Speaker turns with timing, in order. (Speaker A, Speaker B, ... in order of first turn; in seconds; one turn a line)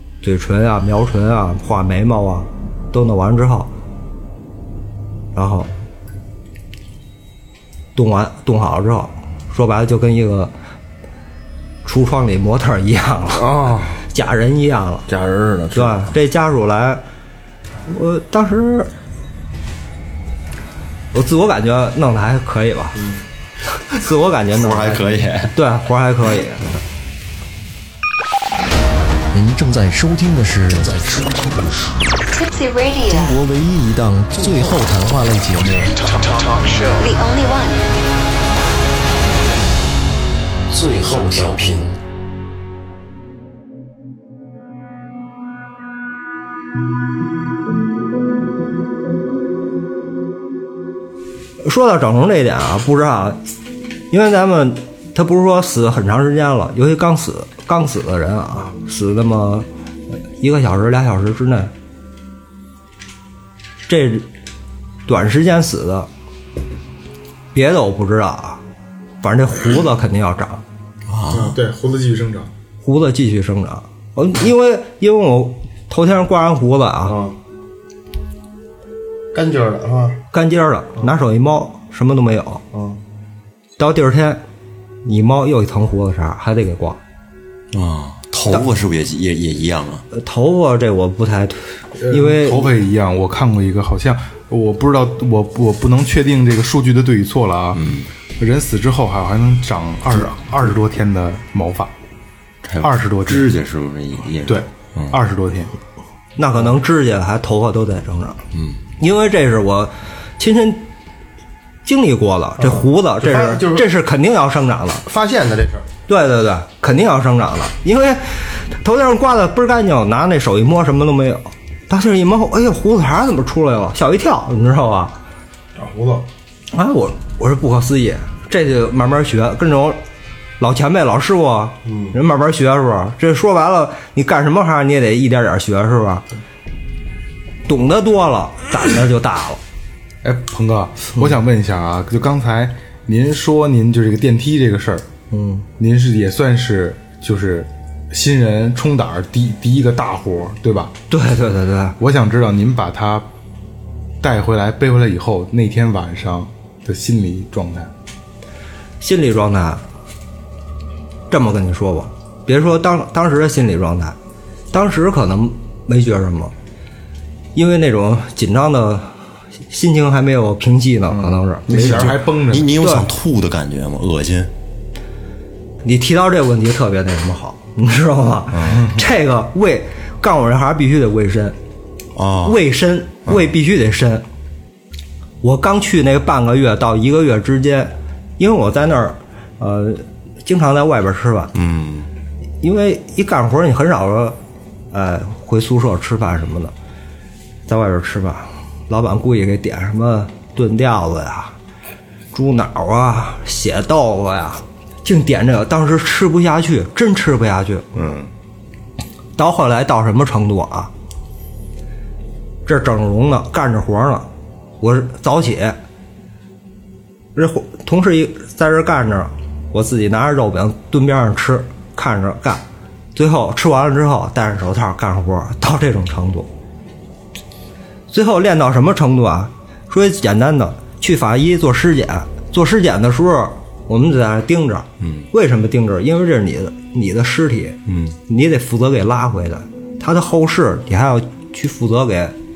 Speaker A: 0.2-3.7
Speaker A: 5.3-5.7
Speaker A: 7.9-10.5
Speaker A: 11.8-15.1
Speaker B: 13.3-14.0
Speaker B: 15.1-16.1
Speaker A: 15.7-17.0
Speaker A: 17.9-18.9
Speaker A: 21.1-23.1
Speaker A: 23.9-26.7
Speaker C: 24.5-25.5
Speaker D: 29.3-32.0
Speaker E: 32.3-33.4
Speaker D: 33.1-36.0
Speaker E: 36.3-37.8
Speaker D: 40.7-42.0
Speaker A: 51.6-53.4
Speaker A: 54.1-59.7
Speaker A: 60.4-61.7
Speaker A: 63.9-64.3
Speaker A: 65.0-66.1
Speaker A: 67.5-68.6
Speaker A: 69.2-70.6
Speaker C: 71.1-71.6
Speaker F: 71.3-72.5
Speaker A: 72.8-77.2
Speaker B: 77.0-77.4
Speaker B: 79.3-80.2
Speaker A: 80.3-82.6
Speaker B: 82.7-83.0
Speaker A: 83.8-84.4
Speaker A: 85.0-87.0
Speaker C: 87.7-90.0
Speaker A: 90.1-92.7
Speaker F: 92.0-97.8
Speaker C: 97.7-98.1
Speaker F: 98.4-101.9
Speaker C: 102.6-105.2
Speaker F: 102.8-103.5
Speaker F: 104.5-105.8
Speaker A: 106.4-108.4
Speaker C: 108.5-108.8
Speaker A: 109.0-110.9
Speaker A: 111.8-115.0
Speaker B: 112.6-113.9
Speaker B: 115.0-115.8
Speaker A: 116.1-125.1
Speaker B: 125.7-126.3
Speaker A: 126.7-130.0
Speaker A: 130.6-136.2
Speaker B: 131.8-132.1
Speaker A: 137.7-139.6
Speaker F: 140.2-145.1
Speaker A: 145.3-145.7
Speaker F: 145.8-150.9
Speaker A: 151.1-152.0
Speaker F: 152.0-153.2
Speaker F: 154.2-157.9
Speaker A: 159.0-159.8
Speaker A: 161.3-164.2
Speaker A: 164.7-166.5
Speaker A: 167.5-169.1
Speaker A: 169.7-172.2
Speaker F: 171.1-172.8
Speaker C: 171.7-174.5
Speaker A: 172.8-173.1
Speaker A: 175.8-181.6
Speaker C: 178.5-178.8
Speaker F: 178.7-179.0
Speaker C: 182.1-182.6
Speaker A: 182.4-184.2
Speaker A: 185.4-191.5
Speaker C: 191.5-192.1
Speaker A: 192.6-194.4
Speaker A: 194.9-196.7
Speaker A: 197.7-201.5
Speaker A: 202.3-207.9
Speaker C: 207.9-208.3
Speaker A: 209.4-210.9
Speaker A: 212.7-214.3
Speaker A: 214.8-215.8
Speaker A: 217.3-222.6
Speaker A: 223.2-226.5
Speaker A: 228.1-242.3
Speaker C: 235.0-235.3
Speaker C: 237.8-238.2